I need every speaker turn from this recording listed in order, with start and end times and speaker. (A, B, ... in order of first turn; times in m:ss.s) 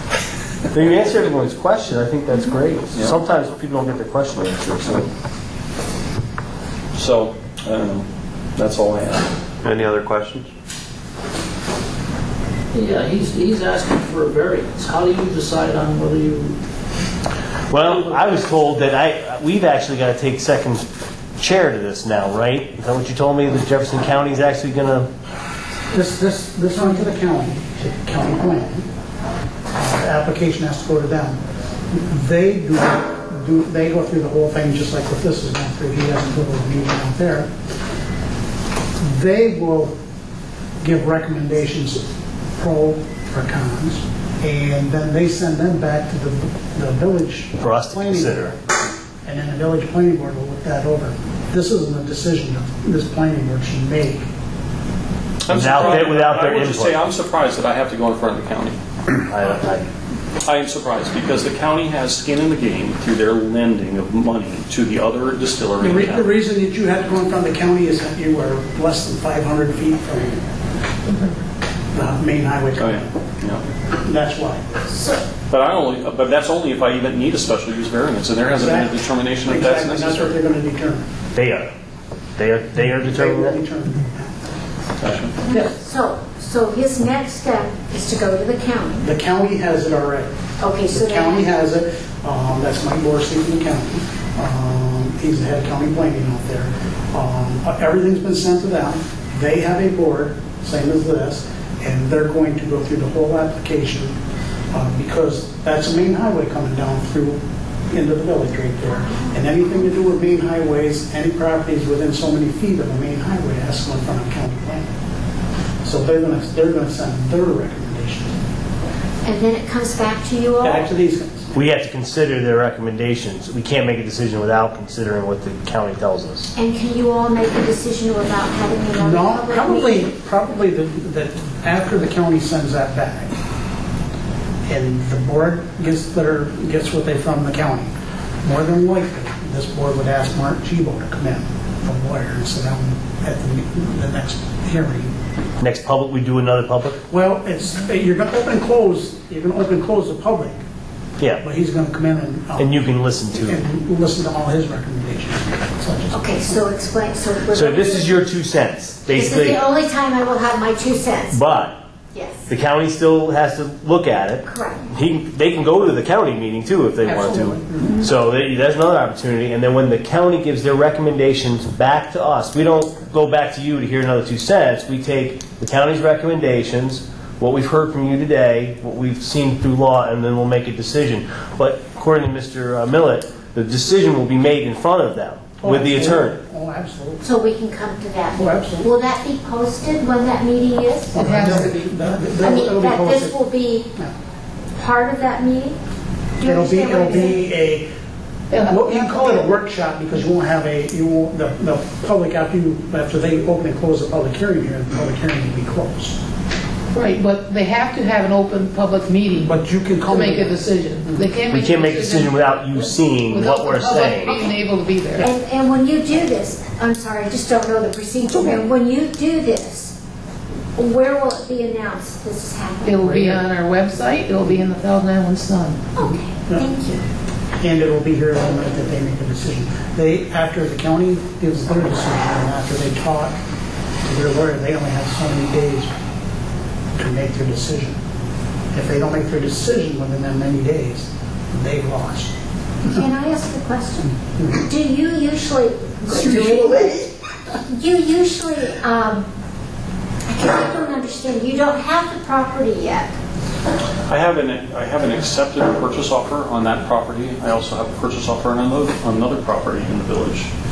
0:00.7-0:05.1 A
0:06.9-0:09.8 B
0:09.6-0:10.5 A
0:12.7-0:16.6 C
0:17.7-0:20.8 A
0:17.8-0:18.9 C
0:21.4-0:25.1 A
0:25.9-0:28.9 D
0:29.7-0:31.4 D
0:31.9-0:37.5 D
0:39.0-0:40.0 D
0:40.8-0:42.0 D
0:42.6-0:48.6 D
0:47.6-0:48.6 A
0:49.2-0:54.3 D
0:55.4-0:58.8 B
0:55.5-0:57.0 A
0:59.3-0:59.8 A
1:00.4-1:06.3 B
1:05.8-1:10.4 D
1:11.9-1:13.1 D
1:12.8-1:13.6 B
1:14.0-1:14.6 D
1:14.9-1:15.2 E
1:15.5-1:20.4 B
1:18.5-1:21.1 D
1:21.3-1:21.7 A
1:22.4-1:23.6 A
1:23.0-1:24.4 D
1:25.0-1:25.3 B
1:25.4-1:29.1 E
1:29.0-1:30.3 D
1:30.6-1:31.6 E
1:30.9-1:44.2 D
1:44.7-1:54.9 D
1:55.8-1:58.4 D
1:59.2-2:00.8 E
2:00.6-2:01.6 D
2:01.5-2:06.5 A
2:06.6-2:10.1 E
2:09.0-2:13.3 D
2:14.7-2:17.9 D
2:18.4-2:25.1 D
2:25.6-2:27.0 A
2:27.1-2:30.6 D
2:31.4-2:32.8 D
2:32.6-2:33.6 A
2:33.3-2:36.4 D
2:36.1-2:38.3 E
2:37.5-2:39.6 A
2:39.1-2:41.4 E
2:41.3-2:41.7 A
2:42.1-2:42.5 E
2:42.5-3:06.4 A
2:44.4-2:44.8 E
2:47.1-2:47.9 F
3:05.6-3:07.2 D
3:07.2-3:11.7 E
3:08.4-3:08.9 D
3:11.1-3:13.4 D
3:11.1-3:12.1 F
3:12.4-3:13.9 E
3:14.7-3:15.8 E
3:16.4-3:17.4 E
3:16.4-3:17.9 D
3:18.5-3:19.5 F
3:18.6-3:26.2 D
3:26.9-3:35.3 F
3:29.4-3:31.4 D
3:31.5-3:34.4 A
3:34.3-3:34.5 E
3:35.2-3:39.9 E
3:38.3-3:38.6 F
3:40.7-3:43.3 E
3:42.8-3:45.9 F
3:45.9-3:47.0 E
3:46.0-3:46.6 D
3:47.6-3:53.3 D
3:54.0-3:55.9 D
3:56.9-3:58.0 D
3:58.7-4:02.3 D
4:02.8-4:07.1 E
4:06.1-4:06.7 D
4:07.7-4:09.2 E
4:10.3-4:13.1 E
4:14.1-4:20.5 B